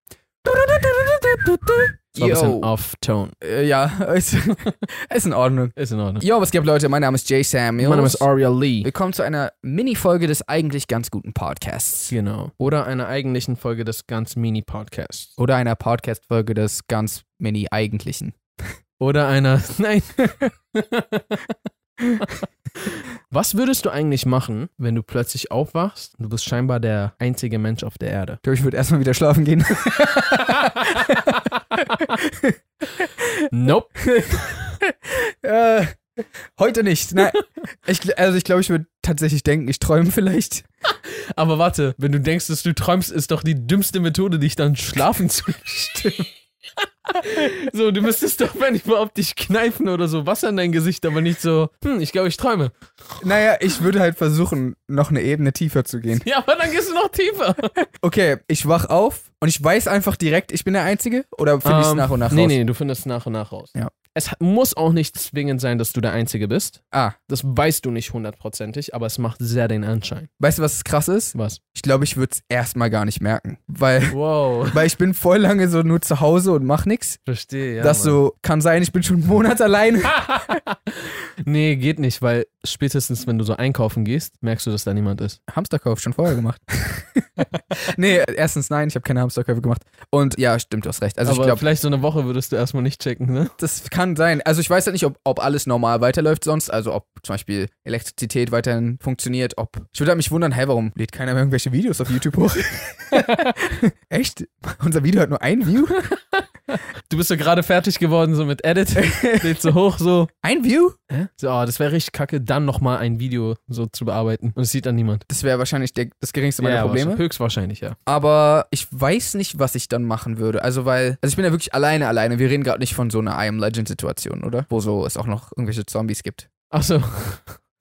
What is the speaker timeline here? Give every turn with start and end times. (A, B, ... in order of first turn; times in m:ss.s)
0:00.4-0:03.4 A
0:02.2-0:02.7 B
0:03.4-0:08.3 B
0:05.8-0:06.2 A
0:07.8-0:08.9 A
0:08.8-0:12.2 B
0:12.1-0:15.3 A
0:15.4-0:18.4 B
0:19.0-0:21.4 A
0:22.9-0:28.4 A
0:28.4-0:31.3 B
0:33.5-0:34.5 A
0:34.1-0:36.0 B
0:36.6-0:40.6 B
0:41.0-0:46.3 A
0:47.1-0:52.8 A
0:53.2-0:56.2 B
0:56.2-0:57.9 A
0:58.0-1:02.6 B
1:01.6-1:10.3 A
1:10.4-1:17.2 B
1:11.3-1:11.6 A
1:14.1-1:14.9 A
1:17.3-1:18.2 A
1:17.8-1:20.4 B
1:20.1-1:25.4 A
1:25.5-1:31.6 B
1:31.2-1:33.5 A
1:33.6-1:46.1 B
1:43.2-1:43.5 A
1:46.4-1:50.3 A
1:49.0-1:49.7 B
1:50.4-1:51.0 B
1:51.1-1:55.2 A
1:55.3-1:57.2 B
1:56.6-1:58.0 A
1:58.1-2:06.5 B
2:06.7-2:07.6 A